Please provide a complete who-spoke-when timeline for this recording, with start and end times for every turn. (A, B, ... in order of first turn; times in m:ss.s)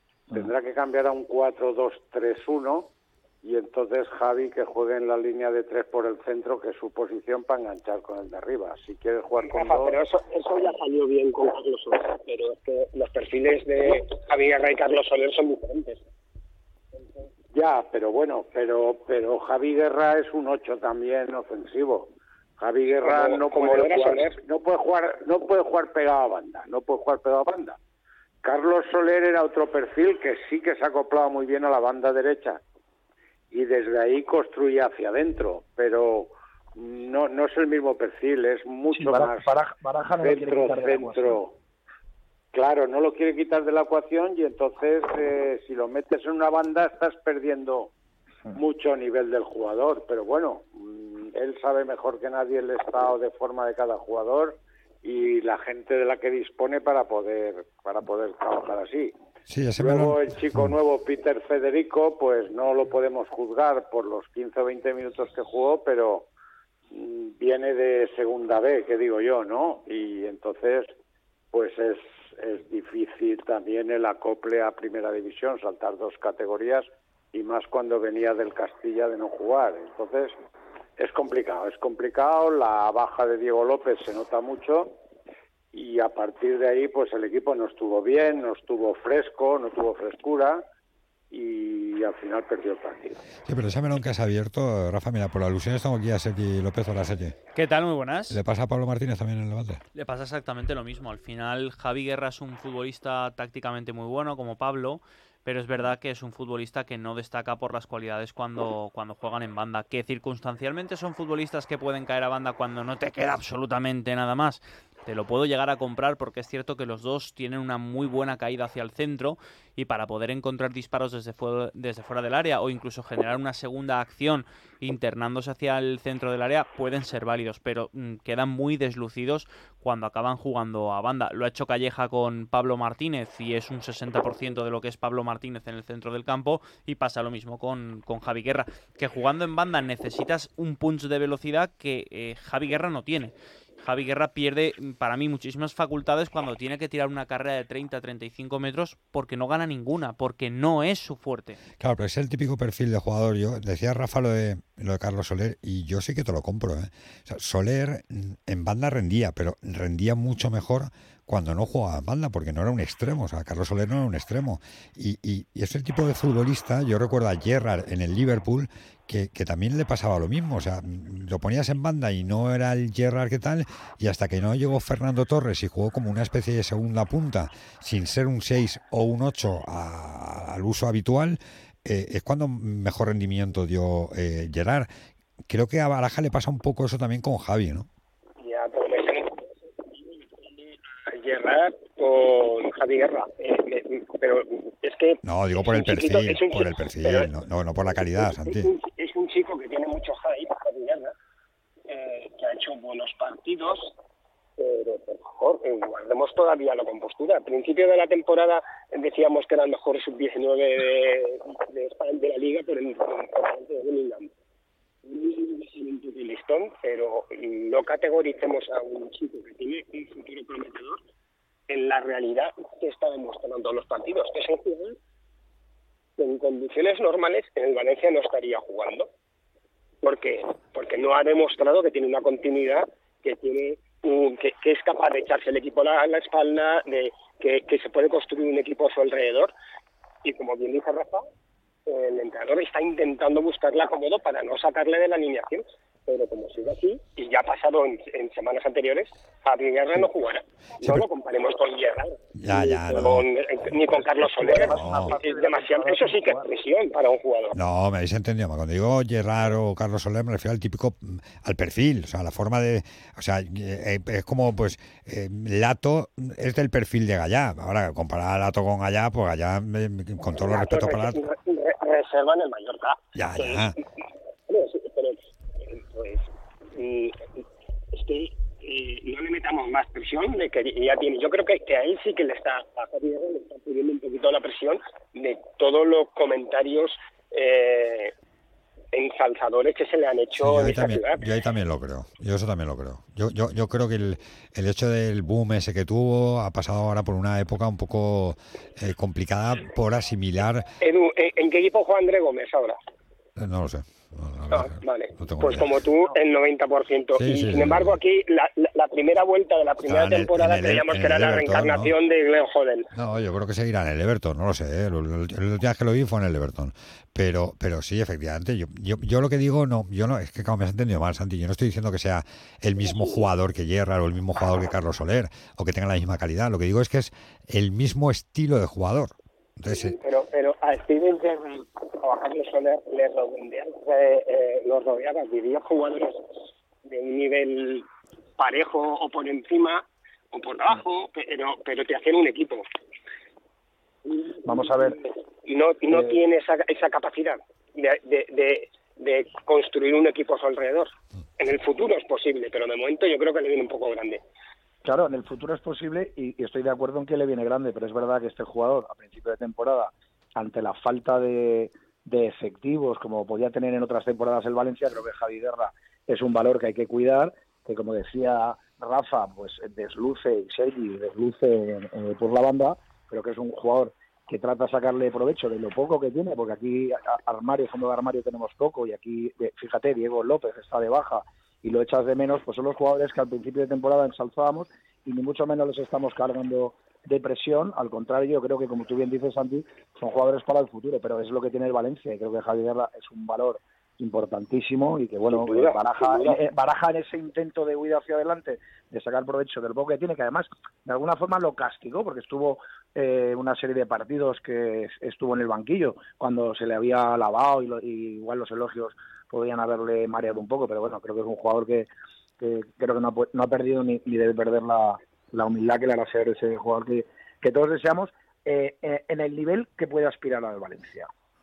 0:00.3-0:02.9 A
0:03.4-0:10.0 A
0:09.5-0:16.0 B
0:17.5-0:27.8 A
0:23.0-0:24.3 B
0:28.4-0:32.6 A
0:33.5-0:39.5 A
0:38.9-0:41.4 C
0:40.2-0:41.5 A
0:42.5-0:47.9 A
0:48.5-0:59.1 A
0:59.5-1:00.8 D
0:59.8-1:06.3 A
1:06.9-1:10.9 A
1:11.5-1:20.3 A
1:21.0-1:25.0 A
1:25.7-1:30.6 A
1:31.3-1:33.2 A
1:33.4-1:37.3 D
1:37.5-1:38.4 E
1:38.3-1:39.8 D
1:39.9-2:31.6 E
2:31.8-3:04.9 D
3:05.5-3:07.9 D
3:08.4-3:17.3 B
3:15.2-3:18.7 D
3:18.0-3:21.1 B
3:21.9-3:23.9 B
3:24.6-3:34.3 B
3:35.0-3:41.0 B
3:41.7-3:45.0 B
3:46.2-3:49.1 B
3:50.0-3:59.5 B
4:00.2-4:01.2 B
4:01.9-4:17.6 B
4:12.3-4:13.3 D
4:14.1-4:16.4 C
4:14.5-4:15.2 D
4:17.5-4:31.2 D
4:30.3-4:33.7 B
4:33.1-4:33.8 D
4:34.5-4:37.4 B
4:37.9-4:48.1 B
4:48.9-4:51.2 B
4:50.4-5:00.7 D
5:00.8-5:02.8 B
5:03.4-5:05.8 D
5:04.5-5:12.9 B
5:07.2-5:08.0 D
5:09.8-5:11.9 D
5:12.9-5:30.0 D
5:22.9-5:23.2 B
5:29.7-5:36.2 B
5:36.8-5:37.9 B
5:38.4-5:42.6 B
5:44.0-5:44.9 B
5:44.4-5:45.0 C
5:45.4-5:54.2 B
5:45.9-5:46.2 C
5:54.8-7:01.1 C
6:35.3-6:36.4 B